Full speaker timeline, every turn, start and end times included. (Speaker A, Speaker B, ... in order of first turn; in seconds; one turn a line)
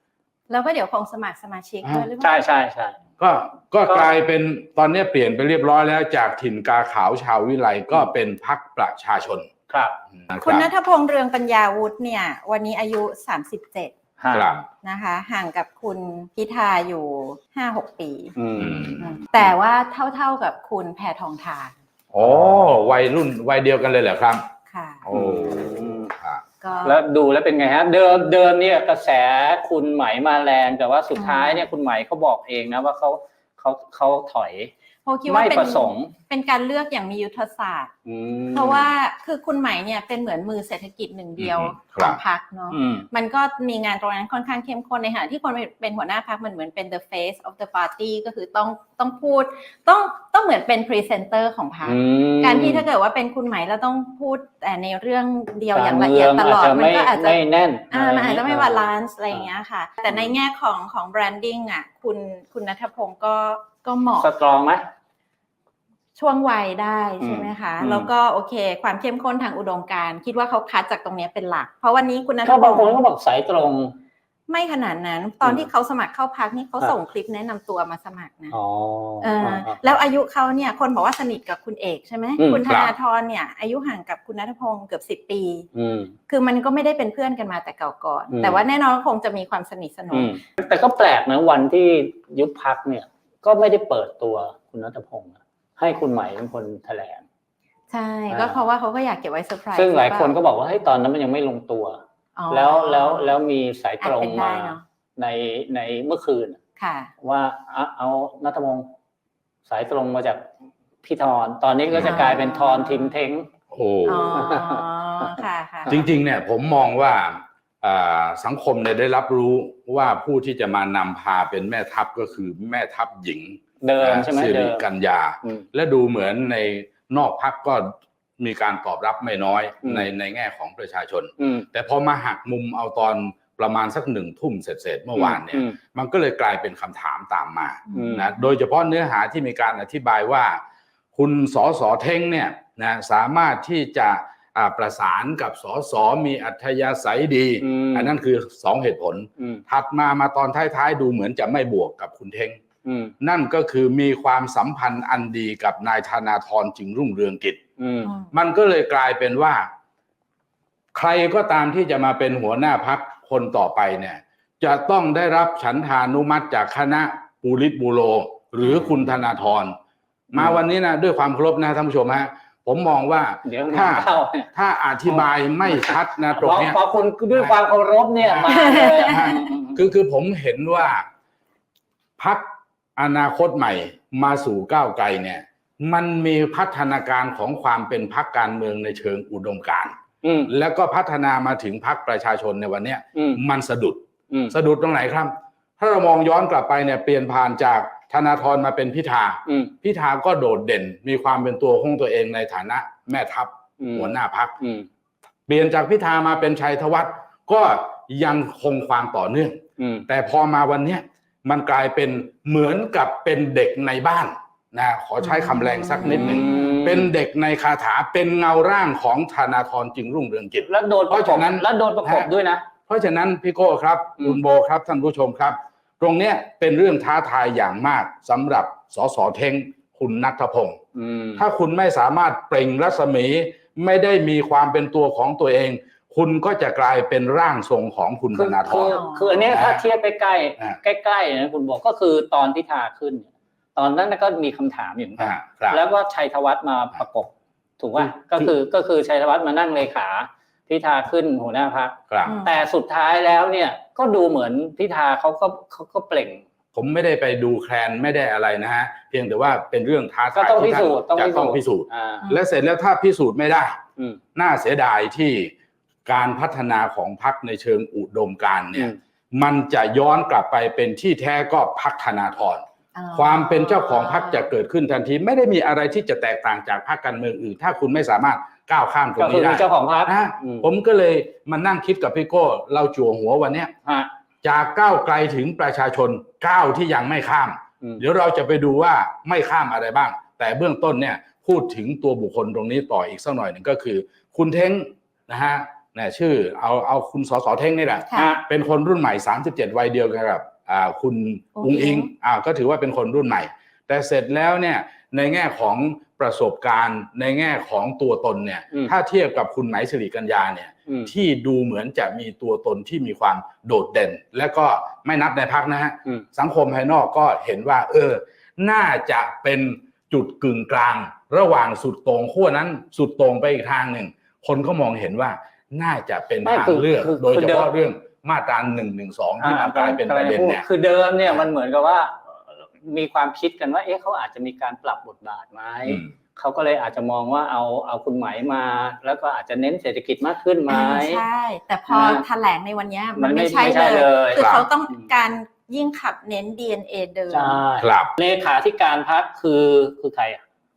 Speaker A: 0.5-2.4
Speaker B: 2.2-3.0
Speaker C: 3.2-9.5
Speaker B: 9.7-10.0
Speaker C: 10.2-10.7
Speaker A: 10.4-13.9
Speaker B: 14.2-14.5
Speaker C: 14.3-14.7
Speaker A: 14.8-18.4
Speaker B: 18.4-18.9
Speaker C: 18.6-19.5
Speaker A: 19.0-21.7
Speaker C: 22.1-24.4
Speaker B: 22.2-22.8
Speaker A: 24.7-25.1
Speaker C: 25.1-26.4
Speaker B: 25.1-26.1
Speaker A: 26.6-27.0
Speaker B: 26.8-34.7
Speaker A: 31.2-31.7
Speaker A: 35.1-37.9
Speaker B: 35.3-36.1
Speaker B: 38.1-38.9
Speaker A: 38.5-64.3
Speaker C: 41.4-42.2
Speaker B: 42.7-43.1
Speaker B: 51.9-52.9
Speaker B: 55.7-59.5
Speaker B: 64.2-64.8
Speaker A: 66.2-73.0
Speaker B: 67.2-68.1
Speaker B: 72.4-74.0
Speaker A: 74.5-78.5
Speaker B: 75.4-75.7
Speaker B: 78.5-79.8
Speaker A: 79.2-85.7
Speaker B: 82.4-82.6
Speaker C: 82.7-82.9
Speaker B: 85.7-86.2
Speaker A: 86.3-90.4
Speaker B: 88.3-88.6
Speaker B: 90.1-97.2
Speaker A: 97.9-100.3
Speaker B: 98.3-98.6
Speaker B: 99.8-106.6
Speaker A: 102.4-103.4
Speaker A: 104.0-104.8
Speaker A: 106.8-107.1
Speaker B: 107.2-108.9
Speaker B: 109.7-110.5
Speaker B: 111.0-113.5
Speaker C: 111.9-112.3
Speaker A: 112.0-113.1
Speaker C: 113.7-114.6
Speaker A: 114.0-116.0
Speaker B: 114.4-114.8
Speaker C: 115.9-140.6
Speaker B: 123.8-124.8
Speaker B: 131.4-131.7
Speaker B: 135.2-135.8
Speaker A: 137.9-138.3
Speaker B: 137.9-138.3
Speaker C: 141.1-152.6
Speaker B: 147.6-148.2
Speaker B: 152.8-153.1
Speaker C: 153.2-157.6
Speaker B: 157.8-158.1
Speaker A: 158.0-158.3
Speaker C: 158.3-159.7
Speaker C: 160.9-169.8
Speaker C: 170.3-176.8
Speaker B: 170.3-170.6
Speaker B: 173.4-174.5
Speaker B: 175.1-179.8
Speaker C: 178.2-181.1
Speaker A: 178.5-179.5
Speaker C: 182.2-189.9
Speaker B: 190.2-190.5
Speaker C: 190.5-204.6
Speaker B: 193.2-193.4
Speaker B: 199.5-199.7
Speaker B: 203.8-204.9
Speaker C: 205.5-222.3
Speaker B: 209.8-210.1
Speaker A: 215.2-216.9
Speaker B: 216.1-217.1
Speaker B: 220.7-222.7
Speaker C: 222.9-230.8
Speaker B: 230.9-231.4
Speaker C: 231.4-239.9
Speaker B: 238.3-256.4
Speaker A: 238.8-239.5
Speaker C: 245.2-245.8
Speaker C: 248.0-248.5
Speaker C: 252.1-252.4
Speaker A: 252.2-252.6
Speaker C: 256.7-263.8
Speaker B: 260.3-262.3
Speaker C: 264.4-265.5
Speaker C: 266.1-283.7
Speaker A: 272.9-274.5
Speaker B: 279.2-280.7
Speaker B: 283.9-284.1
Speaker C: 284.4-330.7
Speaker B: 298.1-298.4
Speaker A: 301.6-302.1
Speaker B: 310.9-311.1
Speaker B: 326.4-327.7
Speaker B: 329.4-341.2
Speaker A: 340.7-347.6
Speaker B: 341.9-342.2
Speaker B: 343.2-345.0
Speaker C: 344.4-344.7
Speaker B: 347.3-350.4
Speaker C: 347.8-348.1